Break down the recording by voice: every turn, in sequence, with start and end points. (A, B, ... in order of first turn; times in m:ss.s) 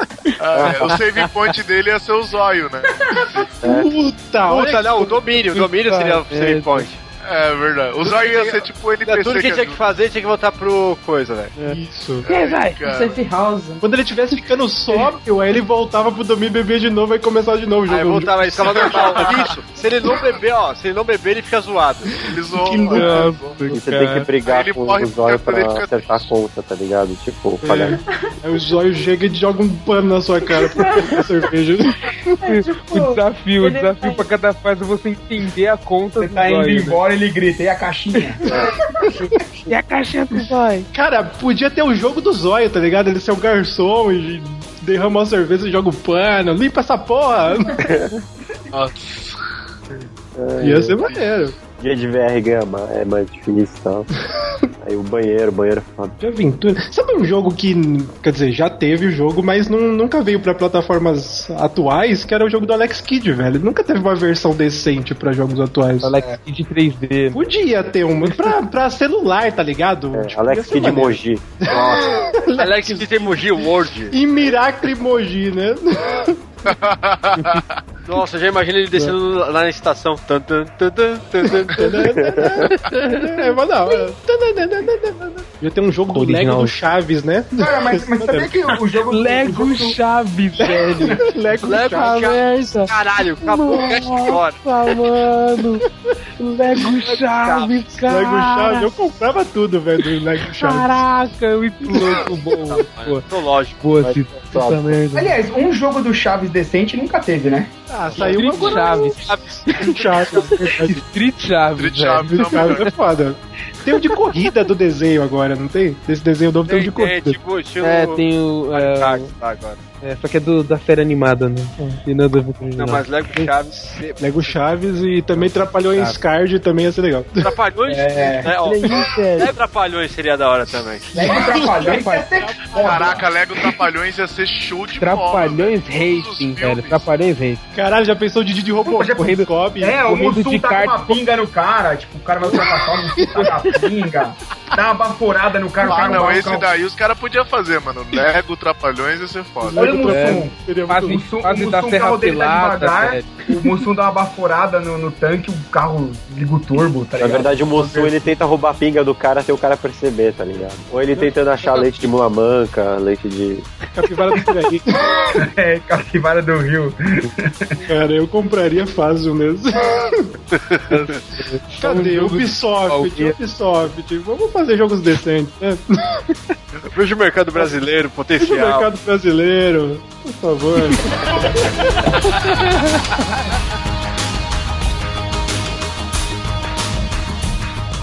0:00.4-0:03.6 A
0:03.0-0:03.5 B
0:03.6-0:05.4 C
0:03.6-0:03.9 D
0:04.4-0:07.0 E
0:05.6-0:06.9 F
0:07.2-0:09.8 A
0:08.0-0:11.6 E
0:11.6-0:12.8 F
0:11.6-0:12.3 C
0:12.2-0:13.2 A
0:12.8-0:13.8 B
0:13.8-0:19.4 C
0:17.9-0:22.1 E
0:18.7-0:19.6 A
0:22.1-0:23.3 C
0:22.3-0:23.7 A
0:22.8-0:24.3 F
0:23.7-0:28.0 D
0:24.4-0:26.3 A
0:27.6-0:32.4 C
0:30.5-0:31.3 B
0:32.4-0:34.3 B
0:32.9-0:37.0 F
0:36.2-0:38.4 G
0:39.6-0:40.9 F
0:40.9-0:47.8 C
0:48.7-0:49.4 A
0:50.4-0:51.0 D
0:50.6-0:51.6 C
0:51.0-0:51.4 A
0:51.8-0:54.1 D
0:54.8-0:56.2 D
0:56.2-1:06.2 C
1:06.0-1:07.4 F
1:07.3-1:16.4 C
1:08.2-1:08.5 F
1:10.1-1:11.5 D
1:11.7-1:11.9 E
1:12.5-1:14.1 E
1:16.6-1:17.8 A
1:18.0-1:21.9 E
1:21.7-1:28.5 C
1:22.1-1:22.6 D
1:22.9-1:23.6 F
1:26.1-1:26.8 F
1:27.6-1:30.0 G
1:29.0-1:35.8 F
1:31.2-1:32.2 C
1:31.6-1:34.6 E
1:36.4-1:38.9 F
1:37.4-1:37.8 E
1:38.0-1:41.0 C
1:40.4-1:43.2 F
1:42.6-1:43.9 E
1:43.8-1:45.4 F
1:45.1-1:47.7 G
1:47.9-1:49.0 C
1:48.1-1:50.6 E
1:48.1-1:52.9 F
1:49.8-1:51.0 C
1:51.8-1:52.9 A
1:52.4-1:57.4 C
1:53.9-1:54.1 F
1:56.6-1:58.2 E
1:57.8-1:59.3 F
1:58.7-1:59.8 E
2:00.0-2:03.5 F
2:02.8-2:04.6 E
2:04.2-2:07.5 C
2:05.4-2:06.2 F
2:07.4-2:11.1 E
2:07.8-2:08.5 G
2:08.5-2:09.5 F
2:11.0-2:13.2 C
2:11.1-2:13.3 G
2:11.3-2:12.2 F
2:12.8-2:17.1 A
2:15.0-2:17.6 F
2:17.7-2:20.0 C
2:18.9-2:26.7 G
2:19.1-2:21.2 F
2:23.3-2:23.7 F
2:25.8-2:29.9 A
2:25.9-2:26.3 C
2:29.6-2:31.2 C
2:29.8-2:38.1 G
2:30.0-2:33.8 F
2:37.2-2:43.7 D
2:44.0-2:44.9 C
2:45.3-2:47.7 G
2:47.9-2:50.3 C
2:50.5-2:51.0 E
2:50.9-2:53.4 F
2:51.8-2:56.0 C
2:56.9-2:58.9 E
2:58.4-3:02.1 C